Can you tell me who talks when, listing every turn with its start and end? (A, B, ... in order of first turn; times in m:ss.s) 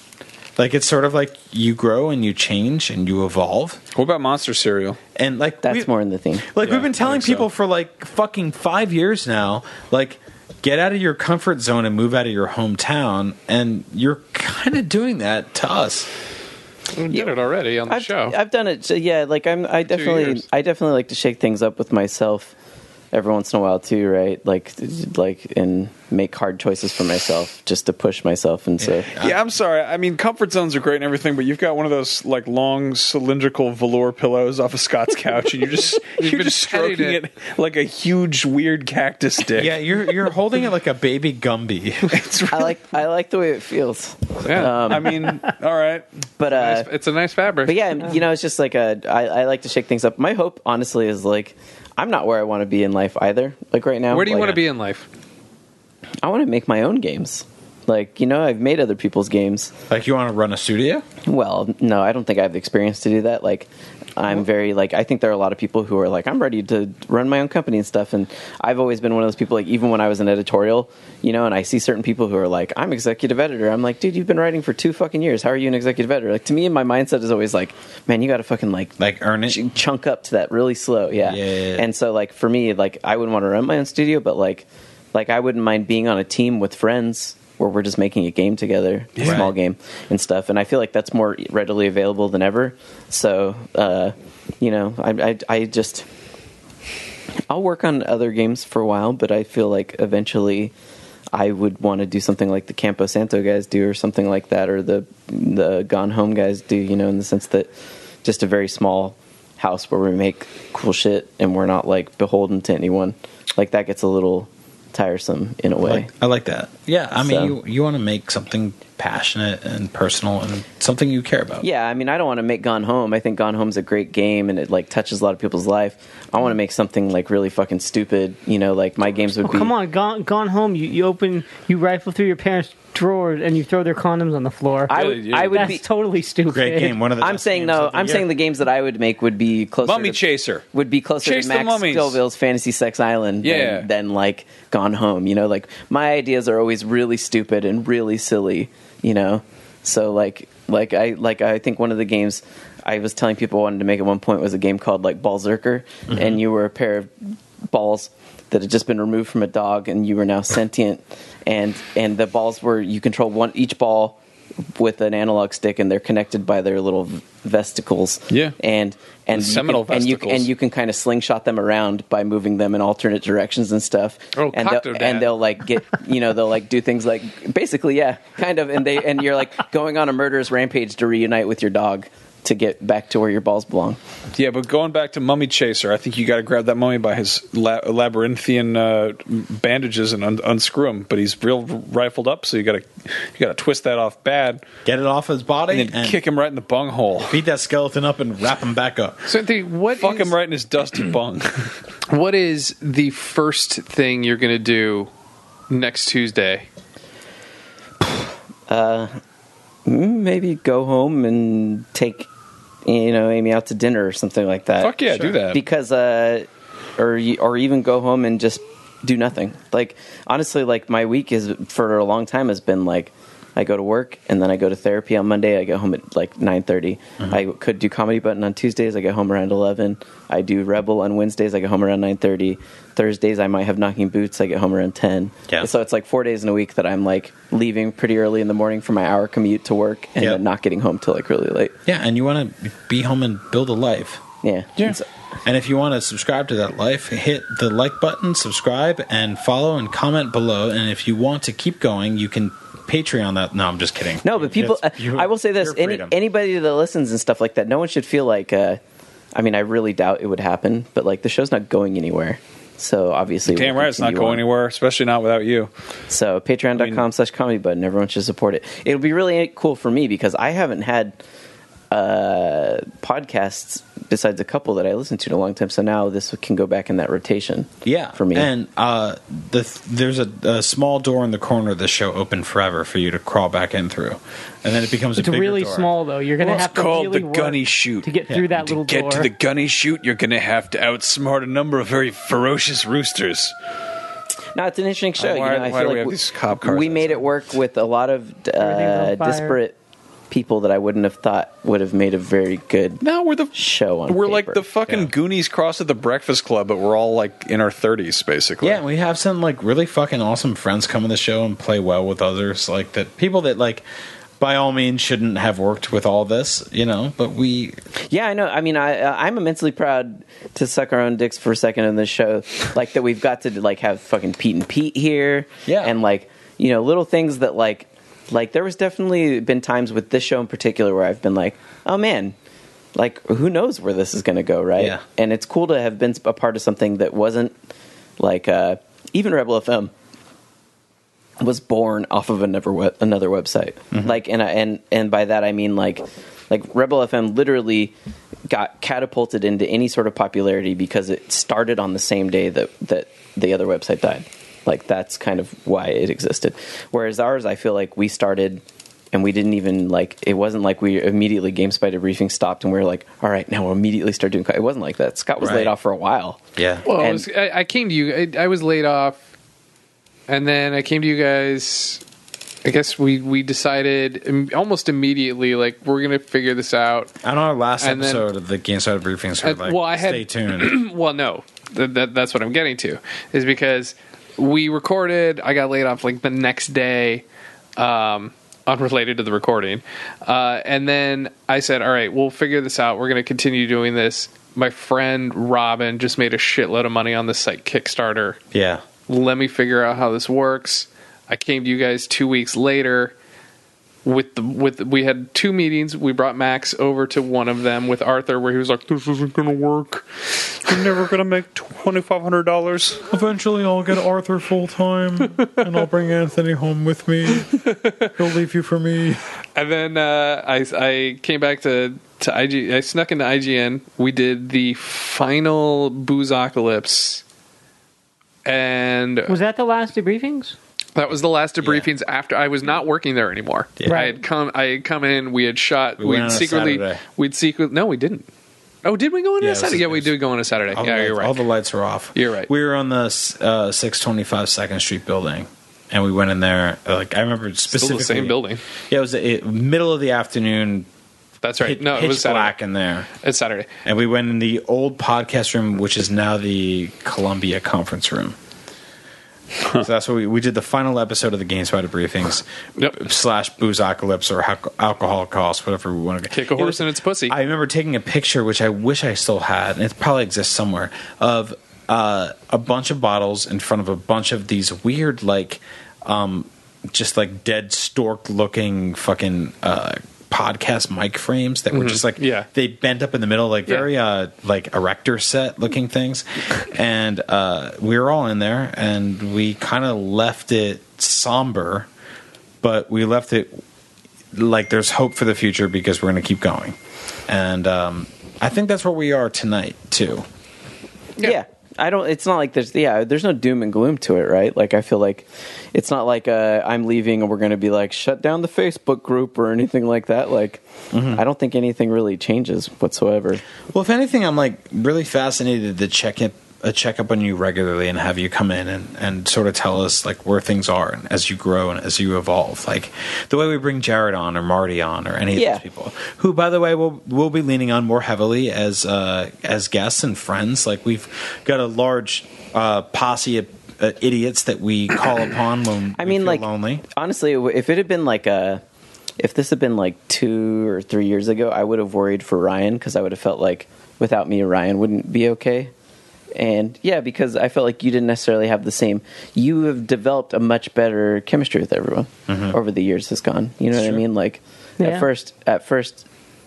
0:00.6-0:03.8 A
0:03.9-0:05.0 B
0:05.2-0:05.9 A
0:05.6-0:06.5 C
0:06.5-0:16.1 A
0:06.6-0:07.5 B
0:17.0-0:18.4 D
0:17.9-0:22.6 C
0:19.9-0:20.4 D
0:23.1-0:29.1 C
0:28.9-0:29.4 A
0:29.2-0:39.8 B
0:36.2-0:37.2 D
0:39.6-0:42.2 A
0:42.1-0:42.7 B
0:42.5-0:45.2 C
0:44.4-0:44.9 D
0:44.8-0:46.0 B
0:46.4-0:46.9 C
0:46.5-0:47.8 D
0:47.6-0:54.6 C
0:54.1-0:55.1 D
0:56.2-0:59.7 C
0:59.9-1:01.0 A
1:01.3-1:18.9 C
1:19.0-1:19.6 A
1:19.5-1:36.1 C
1:21.2-1:21.9 A
1:29.2-1:29.4 B
1:29.2-1:29.5 A
1:37.5-1:40.7 C
1:41.3-1:47.7 C
1:48.2-1:56.1 C
1:55.8-2:01.6 A
1:57.2-1:57.6 C
2:01.6-2:09.7 C
2:09.4-2:17.0 E
2:14.9-2:15.8 C
2:14.9-2:15.7 B
2:16.5-2:18.3 A
2:17.2-2:37.1 C
2:19.8-2:20.6 B
2:21.2-2:22.2 B
2:23.4-2:23.9 B
2:36.1-2:36.4 A
2:37.7-2:44.2 C
2:44.8-3:04.0 C
2:48.3-2:48.6 B
2:49.3-2:50.5 B
2:54.4-2:55.3 D
3:04.4-3:14.6 B
3:14.8-3:16.2 A
3:15.7-3:17.4 B
3:17.3-3:19.3 A
3:19.3-3:20.3 D
3:19.9-3:21.8 B
3:22.1-3:25.1 D
3:25.7-3:26.7 D
3:28.7-3:29.1 C
3:29.9-3:32.3 C
3:32.8-4:01.8 C
3:34.8-3:35.6 B
4:01.9-4:04.2 A
4:04.4-4:05.0 C
4:05.4-4:16.2 A
4:14.2-4:18.8 C
4:19.4-4:24.4 C
4:23.5-4:25.7 B
4:26.1-4:31.2 C
4:26.8-4:27.0 B
4:31.9-4:38.5 C
4:37.8-4:45.9 A
4:45.2-4:49.3 E
4:46.4-4:53.5 B
4:48.3-4:48.6 A
4:54.6-4:59.8 C
4:55.2-4:57.3 B
4:58.6-4:59.6 E
5:00.3-5:03.0 C
5:03.0-5:03.6 B
5:03.5-5:04.6 C
5:04.1-5:08.8 B
5:08.6-5:13.8 A
5:14.4-5:17.8 A
5:18.1-5:32.4 C
5:25.7-5:25.9 A
5:33.0-5:37.5 C
5:34.8-5:35.0 A
5:38.2-5:39.9 C
5:41.4-5:47.9 C
5:48.5-6:06.4 C
6:05.4-6:05.7 A
6:06.6-6:06.9 A
6:06.8-6:09.2 D
6:06.9-6:07.2 C
6:10.3-6:12.0 D
6:12.6-6:17.1 D
6:17.2-6:20.8 A
6:17.8-6:18.2 D
6:19.4-6:27.2 D
6:27.8-6:38.4 D
6:38.5-6:38.8 A
6:39.1-6:43.1 D
6:44.0-6:50.0 D
6:50.7-6:51.4 D
6:53.1-6:57.6 A
6:57.4-6:58.1 D
6:58.2-6:59.2 A
6:59.6-7:07.2 D
7:08.4-7:09.4 D
7:09.3-7:10.6 E
7:11.0-7:18.3 D
7:11.6-7:11.9 A
7:13.9-7:14.2 E
7:16.0-7:17.0 A
7:18.8-7:21.4 D
7:19.4-7:20.1 A
7:20.7-7:28.4 A
7:22.2-7:22.5 D
7:27.7-7:28.6 D
7:28.9-7:30.9 A
7:31.4-7:32.5 D
7:31.6-7:33.1 A
7:33.2-7:33.7 D
7:33.8-7:38.4 A
7:39.8-8:11.9 A
7:46.3-7:47.4 D
8:01.7-8:02.5 D
8:12.6-8:13.6 A
8:14.3-8:16.8 A
8:17.3-8:20.3 A
8:21.2-8:33.4 C
8:30.9-8:31.2 A
8:33.7-8:56.8 A
8:45.3-8:45.6 C
8:56.0-8:58.6 C
8:59.2-9:05.7 C
9:06.4-9:16.0 C
9:12.3-9:12.6 A
9:14.8-9:15.1 E